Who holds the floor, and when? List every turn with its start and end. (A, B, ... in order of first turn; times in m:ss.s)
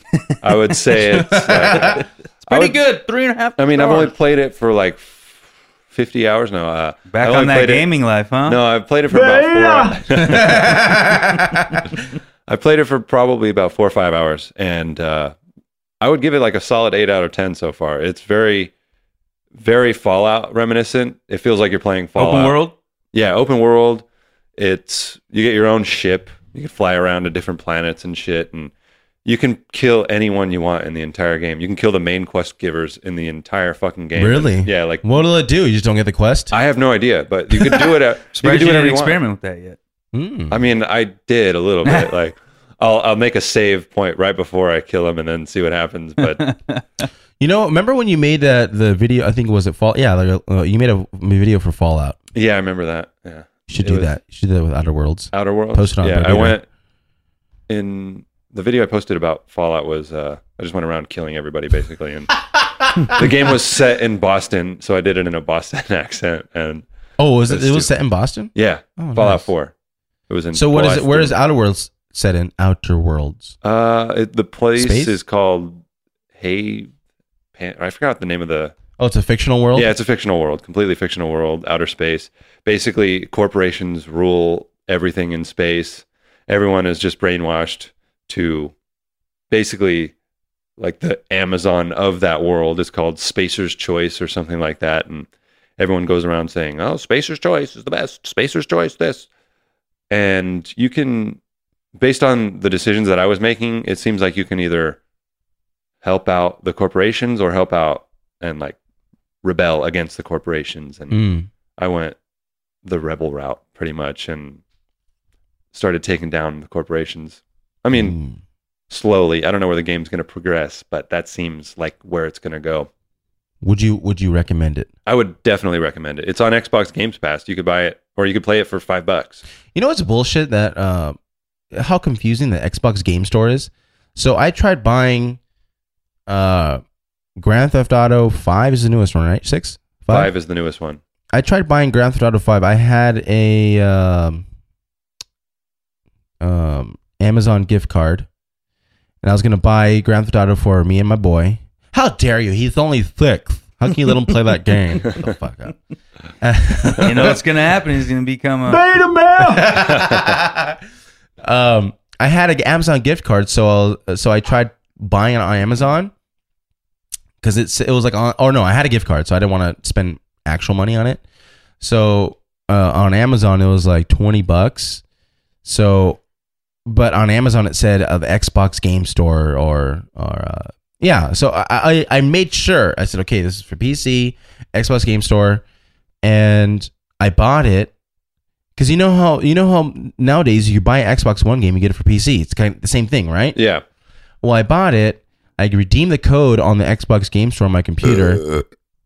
0:00.4-0:02.8 A
0:00.7-0:04.1 B
0:01.2-0:02.0 C
0:03.6-0:07.9 A
0:07.1-0:08.6 B
0:08.4-0:11.0 A
0:09.1-0:11.9 C
0:12.5-0:15.3 A
0:16.0-0:18.7 A
0:19.6-0:22.6 A
0:22.2-0:22.7 B
0:23.1-0:24.0 A
0:24.6-0:28.7 A
0:29.2-0:35.0 A
0:34.2-0:36.5 C
0:36.5-0:39.2 A
0:38.4-0:39.8 B
0:40.1-0:40.6 C
0:40.5-0:46.4 A
0:41.8-0:42.1 B
0:46.2-0:47.1 B
0:47.4-0:52.2 C
0:52.3-0:54.1 A
0:53.7-0:56.6 C
0:55.3-0:56.6 A
0:57.7-1:02.3 A
1:02.8-1:03.2 C
1:03.1-1:06.8 A
1:07.2-1:09.5 C
1:07.5-1:07.9 A
1:08.5-1:09.7 A
1:10.3-1:11.3 A
1:10.5-1:13.5 C
1:13.6-1:15.8 A
1:14.8-1:15.2 C
1:16.4-1:16.9 A
1:17.6-1:18.7 A
1:19.0-1:19.9 C
1:19.7-1:28.7 A
1:29.5-1:30.1 A
1:30.8-1:39.3 A
1:40.1-1:41.4 A
1:42.0-1:45.0 A
1:46.0-1:48.8 A
1:49.4-1:51.2 A
1:51.1-1:51.5 C
1:51.8-1:52.2 A
1:52.8-1:54.6 A
1:55.7-1:58.1 A
1:57.9-1:58.4 C
1:58.9-2:02.9 A
2:03.6-2:04.9 C
2:05.0-2:09.4 A
2:09.7-2:11.2 C
2:11.7-2:15.4 C
2:16.3-2:16.8 C
2:17.4-2:20.3 C
2:20.1-2:21.0 A
2:21.3-2:24.4 C
2:26.4-2:28.3 C
2:29.2-2:35.7 C
2:36.4-2:37.4 C
2:37.0-2:38.8 B
2:38.7-2:40.8 C
2:39.9-2:40.3 A
2:41.4-2:46.1 C
2:47.4-2:51.2 C
2:51.8-2:55.0 C
2:55.6-2:56.2 C
2:56.8-3:05.6 C
3:06.2-3:07.9 C
3:08.8-3:13.6 C
3:13.5-3:13.8 A
3:14.4-3:18.4 C